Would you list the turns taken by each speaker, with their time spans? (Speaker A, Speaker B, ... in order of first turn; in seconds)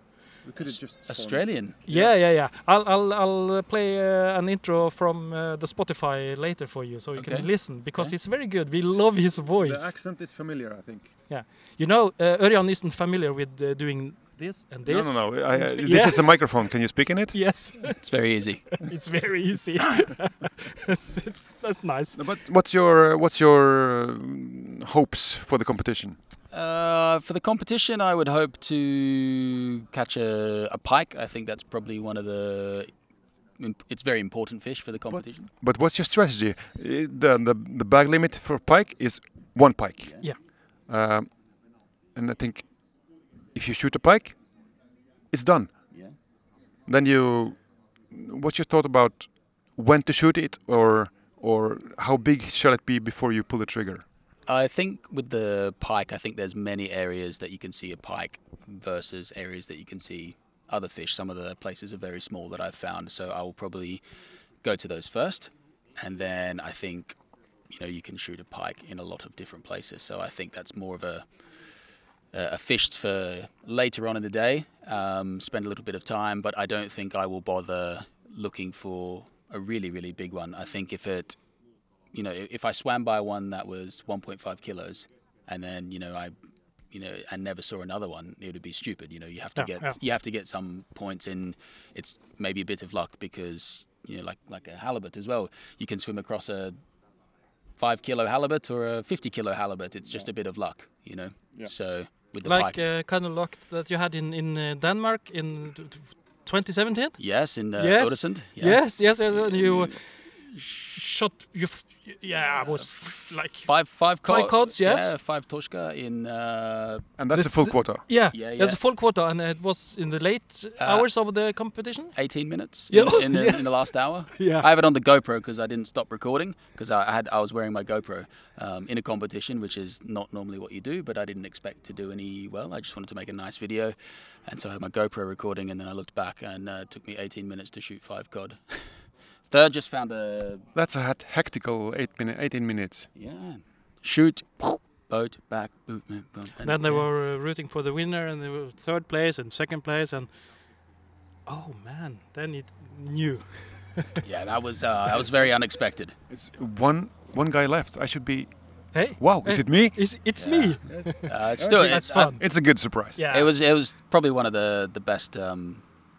Speaker A: 0.5-2.1, 9.6-11.1, 14.9-17.4, 22.2-26.2, 35.1-40.1, 40.9-41.3, 42.1-42.7, 43.5-44.4, 45.3-45.7, 46.9-47.6, 48.1-54.0, 117.2-118.0, 140.7-143.1, 156.3-158.5, 159.2-160.0, 160.9-163.2
Speaker B: 1.1-1.8, 7.2-8.1, 18.0-18.8, 26.5-32.9, 33.6-35.5, 54.5-64.0, 64.6-67.2, 67.7-71.2, 72.3-81.4, 82.1-86.3, 86.9-96.8, 97.8-102.8, 107.2-108.8, 113.7-117.0, 118.3-118.8, 120.8-121.1, 122.2-133.9, 134.5-138.9, 139.5-140.7, 143.2-147.0, 154.2-156.2, 160.4-162.4, 163.3-165.8
Speaker C: 1.9-9.9, 11.3-16.3, 17.3-18.0, 18.8-22.2, 89.6-89.9, 102.4-107.2, 107.8-110.0, 110.7-113.7, 114.2-115.1, 117.3-122.2, 122.9-123.7, 124.4-124.7, 146.6-150.3, 151.5-154.2, 158.9-162.4, 163.2-163.5